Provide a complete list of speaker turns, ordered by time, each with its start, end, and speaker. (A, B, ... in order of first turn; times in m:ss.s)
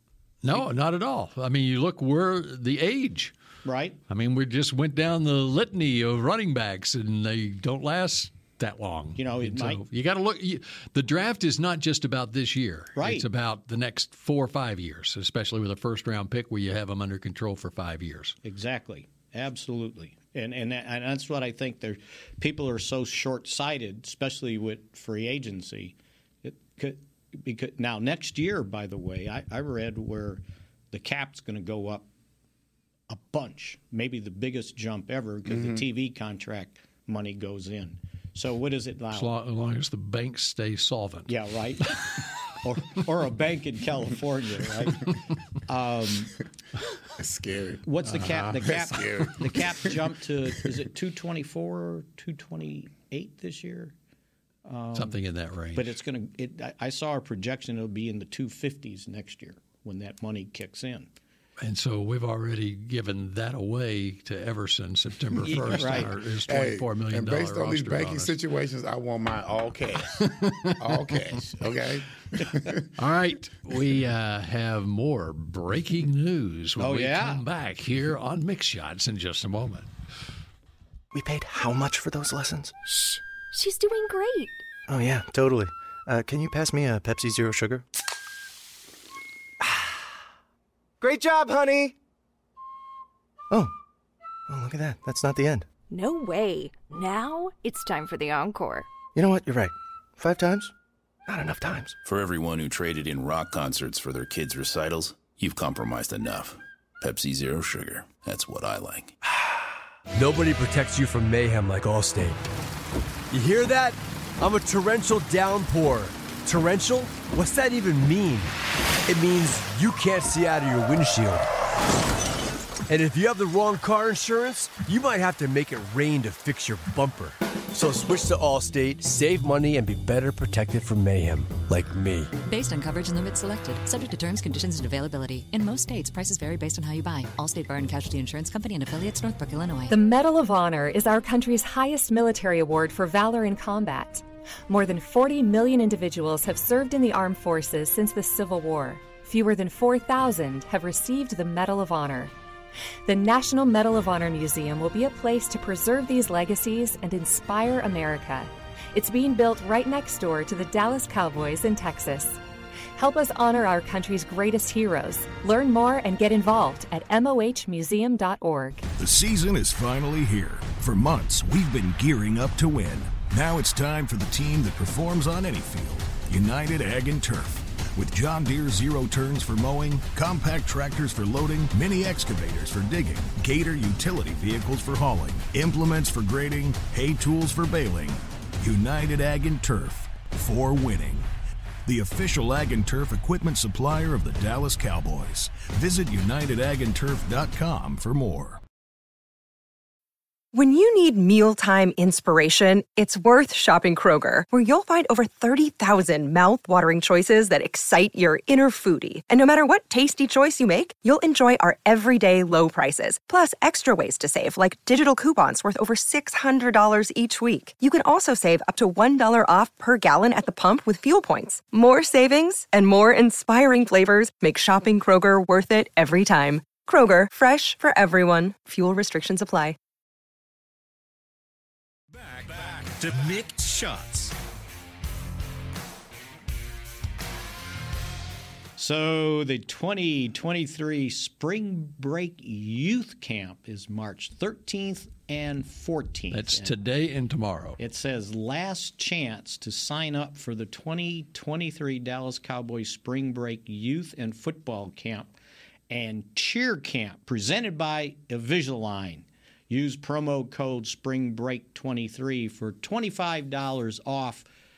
0:00.4-0:03.3 A
0:03.6-0:04.0 B
0:04.1-0:18.4 A
0:09.2-0:09.8 B
0:13.0-0:13.3 B
0:18.4-0:32.1 B
0:33.1-0:39.3 B
0:35.5-0:35.8 C
0:39.1-0:41.3 A
0:41.3-0:42.0 B
0:42.6-0:46.4 B
0:47.1-0:47.8 C
0:47.8-0:53.9 B
0:48.2-0:48.5 A
0:48.4-0:50.0 C
0:54.6-0:55.2 B
0:55.0-0:55.9 A
0:55.7-1:01.1 B
1:01.6-1:08.4 A
1:05.4-1:06.1 B
1:05.5-1:12.9 C
1:10.2-1:11.2 A
1:13.0-1:19.9 A
1:16.8-1:17.4 B
1:21.1-1:22.7 D
1:23.5-1:24.6 E
1:24.9-1:27.9 D
1:29.6-1:30.0 D
1:31.0-1:32.0 D
1:34.5-1:35.7 D
1:35.9-1:38.9 E
1:39.2-1:40.7 D
1:41.3-1:42.0 D
1:42.0-1:49.1 F
1:50.1-1:52.5 G
1:53.3-1:58.6 G
1:59.1-2:01.5 G
2:02.9-2:12.3 G
2:12.4-2:19.9 H
2:19.9-2:32.3 I
2:33.1-2:42.4 I
2:43.0-2:48.8 I
2:49.0-3:11.3 J
3:11.8-3:18.6 J
3:20.5-3:49.8 K
3:52.2-3:54.4 L
3:58.8-4:06.8 B
4:06.3-4:07.8 A
4:07.8-4:15.3 B
4:15.9-4:24.5 B